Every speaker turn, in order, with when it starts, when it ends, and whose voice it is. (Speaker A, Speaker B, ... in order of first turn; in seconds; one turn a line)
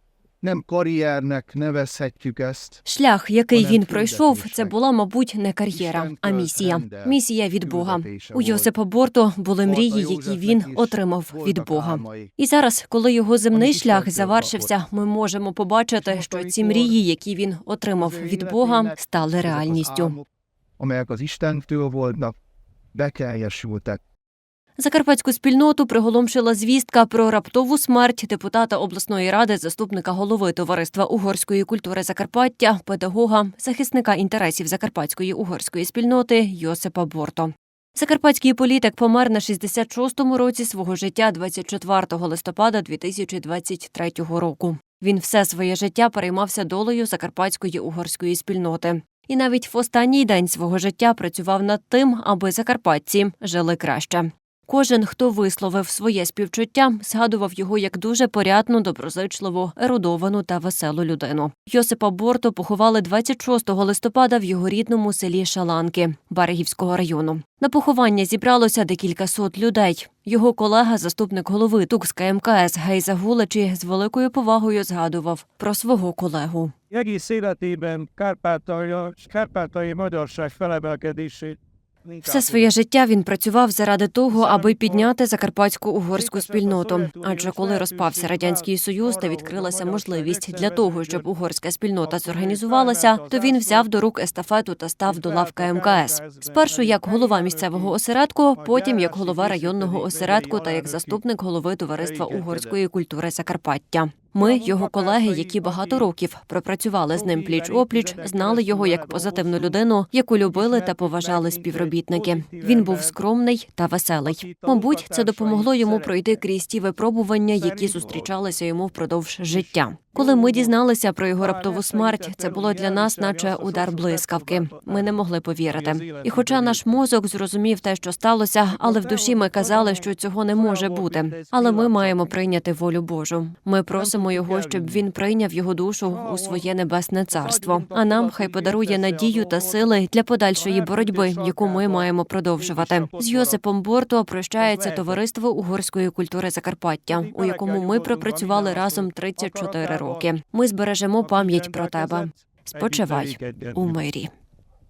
Speaker A: 0.4-2.8
Speaker B: 2.9-20.2
Speaker A: 3.5-4.8
Speaker A: 5.7-8.7
Speaker A: 9.6-12.3
Speaker A: 13.5-14.7
Speaker A: 16.0-17.0
Speaker A: 18.0-20.3
Speaker A: 20.8-22.4
Speaker A: 22.9-24.0
Speaker B: 24.8-76.7
Speaker C: 76.9-82.7
Speaker B: 82.2-154.3
Speaker C: 84.3-85.1
Speaker C: 86.1-91.3
Speaker C: 92.0-93.9
Speaker C: 95.0-98.0
Speaker C: 98.6-101.2
Speaker C: 101.9-102.8
Speaker C: 104.3-106.1
Speaker C: 107.1-109.8
Speaker C: 110.4-113.2
Speaker C: 114.2-116.4
Speaker C: 117.5-118.3
Speaker C: 119.5-120.7
Speaker C: 121.4-125.2
Speaker C: 125.7-127.0
Speaker C: 128.7-132.5
Speaker C: 133.9-135.1
Speaker C: 136.1-136.7
Speaker C: 137.3-140.0
Speaker C: 140.6-143.6
Speaker C: 144.6-145.2
Speaker C: 147.1-150.3
Speaker C: 151.2-154.0